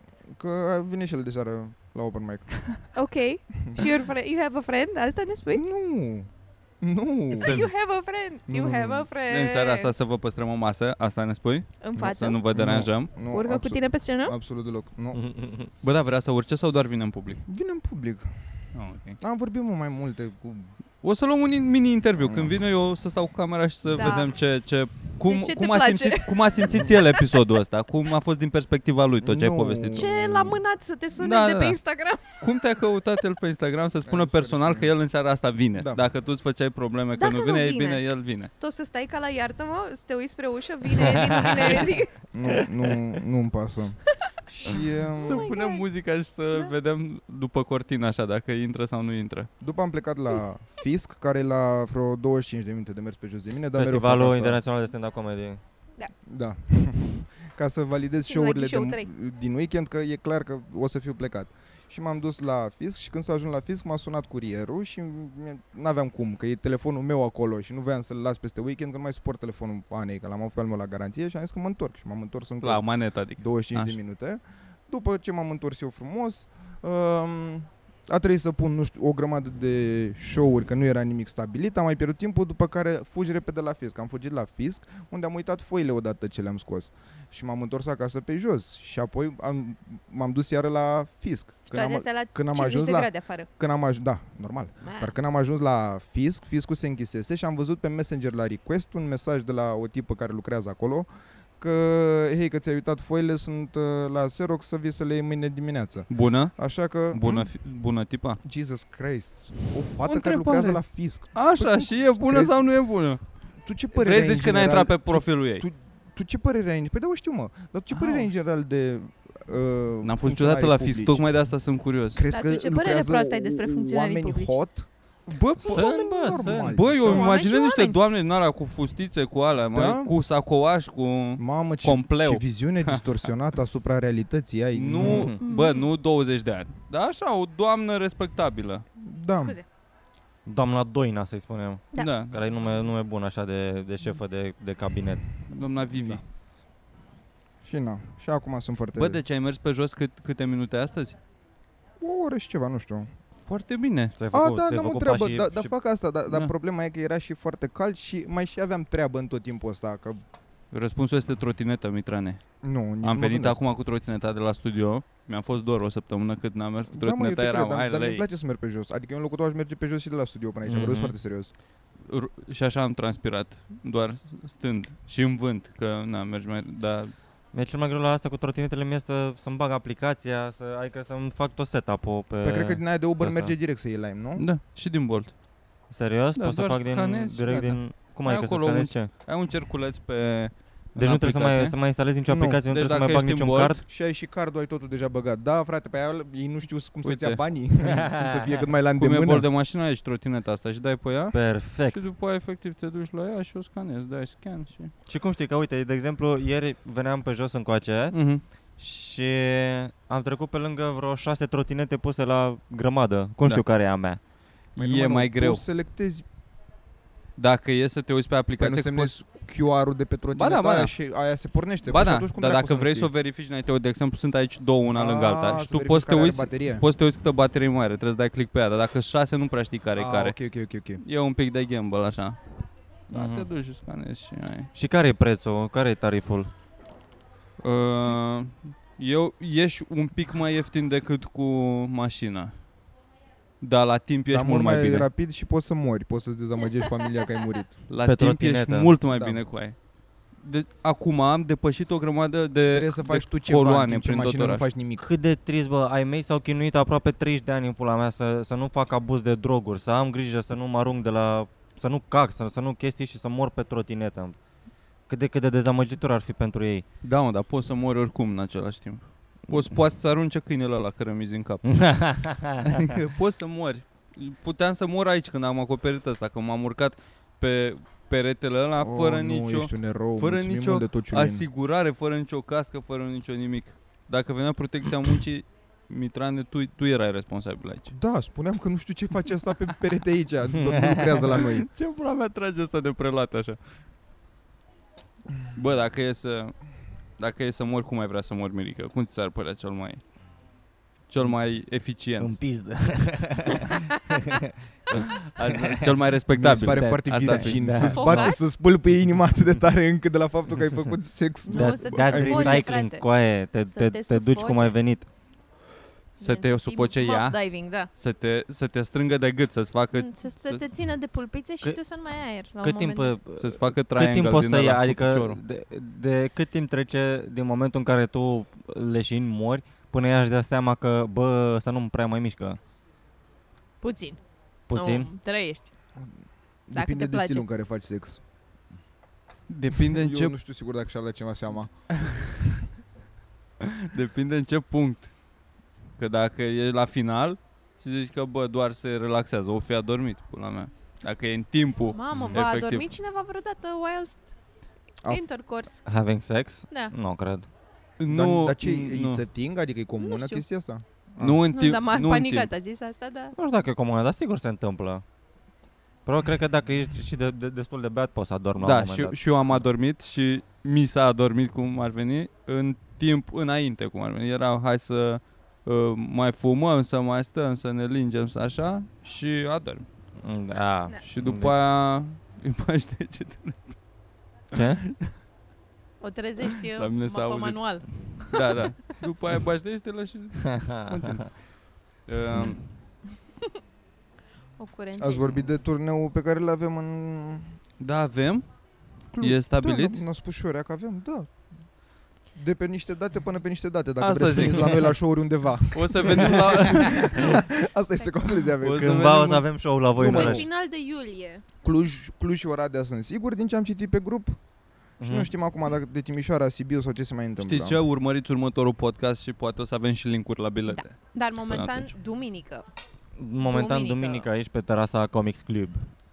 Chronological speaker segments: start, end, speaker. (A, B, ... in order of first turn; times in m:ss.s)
0:00.3-0:02.9 A
0:02.9-0:05.6 B
0:05.5-0:07.6 A
0:07.3-0:07.7 C
0:07.4-0:09.9 B
0:08.5-0:09.1 A
0:09.3-0:13.1 D
0:11.8-0:12.4 B
0:12.0-0:15.2 A
0:13.2-0:14.3 B
0:15.1-0:15.7 C
0:15.8-0:17.4 D
0:17.4-0:18.4 A
0:18.7-0:19.2 D
0:19.2-0:20.7 A
0:21.0-0:30.1 D
0:22.2-0:22.6 A
0:23.9-0:24.3 B
0:25.2-0:27.4 B
0:29.2-0:30.6 A
0:29.9-0:32.4 B
0:31.2-0:31.8 D
0:32.3-0:38.5 D
0:34.0-0:34.9 A
0:37.1-0:38.0 B
0:38.6-0:42.2 B
0:41.1-0:41.7 C
0:42.3-0:45.5 A
0:42.5-0:42.9 C
0:45.2-0:45.8 B
0:45.2-0:49.5 D
0:49.6-0:54.6 A
0:53.7-0:55.6 C
0:56.3-1:47.5 A
0:58.2-0:59.1 B
1:12.6-1:14.0 D
1:31.7-1:33.5 B
1:34.8-1:35.1 B
1:46.1-1:48.4 D
1:48.4-1:52.6 A
1:50.0-1:53.2 D
1:53.6-2:01.2 A
1:53.9-1:55.6 D
1:57.9-1:58.3 D
2:00.0-2:02.2 D
2:02.1-2:04.9 A
2:02.3-2:04.6 B
2:05.3-2:13.3 D
2:05.6-2:07.3 A
2:05.6-2:06.9 C
2:07.0-2:08.0 B
2:09.7-2:10.1 A
2:11.4-2:15.3 A
2:14.7-2:18.8 D
2:15.0-2:15.4 C
2:15.4-2:15.9 B
2:19.0-2:19.6 A
2:19.4-2:19.6 B
2:20.4-2:25.3 C
2:22.0-2:22.4 D
2:25.5-2:26.2 D
2:25.9-2:26.2 A
2:27.6-2:29.2 A
2:28.9-2:31.2 D
2:32.0-2:33.1 A
2:33.5-2:34.2 D
2:34.1-2:35.7 C
2:34.3-2:40.2 A
2:40.7-2:48.2 D
2:42.6-2:43.6 A
2:46.9-2:51.5 A
2:50.6-2:51.1 C
2:52.0-2:57.1 D
2:57.5-3:03.5 C
3:02.4-3:04.4 A
3:04.4-3:05.3 D
3:05.9-3:09.1 C
3:06.4-3:11.8 D
3:11.0-3:13.8 C
3:12.3-3:12.6 A
3:12.7-3:13.8 D
3:13.9-3:19.4 A
3:17.0-3:17.4 D
3:17.9-3:18.6 C
3:19.0-3:24.9 D
3:21.3-3:22.0 C
3:25.1-3:28.2 C
3:28.1-3:28.4 D
3:28.8-3:34.2 C
3:34.8-3:35.6 D
3:34.8-3:36.2 A
3:37.4-3:39.1 D
3:38.6-3:43.1 A
3:40.3-3:40.9 D
3:41.8-3:50.4 D
3:44.9-3:46.8 A
3:50.0-3:51.0 A
3:51.0-3:52.4 D
3:53.1-3:54.7 D
3:53.1-3:53.5 C
3:54.7-3:56.5 C
3:57.6-4:02.5 D
4:03.6-4:05.1 D
4:04.3-4:07.8 A
4:07.9-4:09.8 D
4:08.0-4:08.9 C
4:09.0-4:09.4 A
4:10.4-4:14.7 D
4:12.6-4:15.1 A
4:15.0-4:24.4 C
4:25.1-4:26.8 C
4:27.0-4:32.1 D
4:31.6-4:32.9 C
4:32.7-4:47.9 D
4:38.8-4:41.4 A
4:47.9-4:51.7 A
4:50.5-4:51.2 C
4:51.3-4:53.6 D
4:55.5-4:56.6 D
4:57.2-5:00.0 D
5:01.1-5:02.4 D
5:02.2-5:05.9 C
5:05.2-5:08.0 D
5:06.3-5:12.7 A
5:06.5-5:08.3 C
5:07.8-5:08.4 B
5:11.4-5:13.1 B
5:11.5-5:15.1 C
5:13.6-5:14.8 B
5:16.2-5:17.9 B
5:16.2-5:20.6 D
5:19.9-5:23.1 B
5:22.6-5:32.6 C
5:23.4-5:25.4 D
5:33.8-5:34.2 B
5:34.7-5:35.1 C
5:34.7-5:35.7 B
5:36.7-5:38.2 A
5:36.7-5:37.4 B
5:39.5-5:40.3 D
5:39.8-5:41.7 A
5:42.0-5:42.3 D
5:43.6-5:45.1 D
5:46.0-5:52.8 D
5:51.9-5:54.3 B
5:52.1-5:52.4 C
5:55.1-5:55.8 B
5:55.8-5:57.5 C
5:58.0-5:59.2 D
5:58.1-6:01.4 A
6:00.0-6:00.4 B
6:01.2-6:02.5 D
6:01.5-6:03.3 B
6:03.4-6:05.0 C
6:06.0-6:09.6 C
6:08.6-6:19.8 D
6:20.2-6:21.6 C
6:21.0-6:23.7 D
6:24.5-6:24.8 C
6:24.5-6:25.1 D
6:26.0-6:28.6 B
6:26.7-6:32.7 D
6:30.4-6:31.2 C
6:34.6-6:35.4 B
6:35.0-6:37.6 A
6:37.8-6:38.4 D
6:39.1-6:41.4 A
6:39.2-6:40.0 D
6:42.3-6:49.2 A
6:44.0-6:44.9 D
6:45.7-6:47.4 D
6:48.6-6:49.5 D
6:48.6-6:50.4 C
6:50.0-6:51.4 B
6:50.0-6:50.4 A
6:51.6-6:54.4 A
6:55.0-6:55.3 C
6:55.0-6:57.8 A
6:57.4-7:01.9 D
7:00.7-7:02.6 B
7:03.2-7:05.9 C
7:03.4-7:04.3 B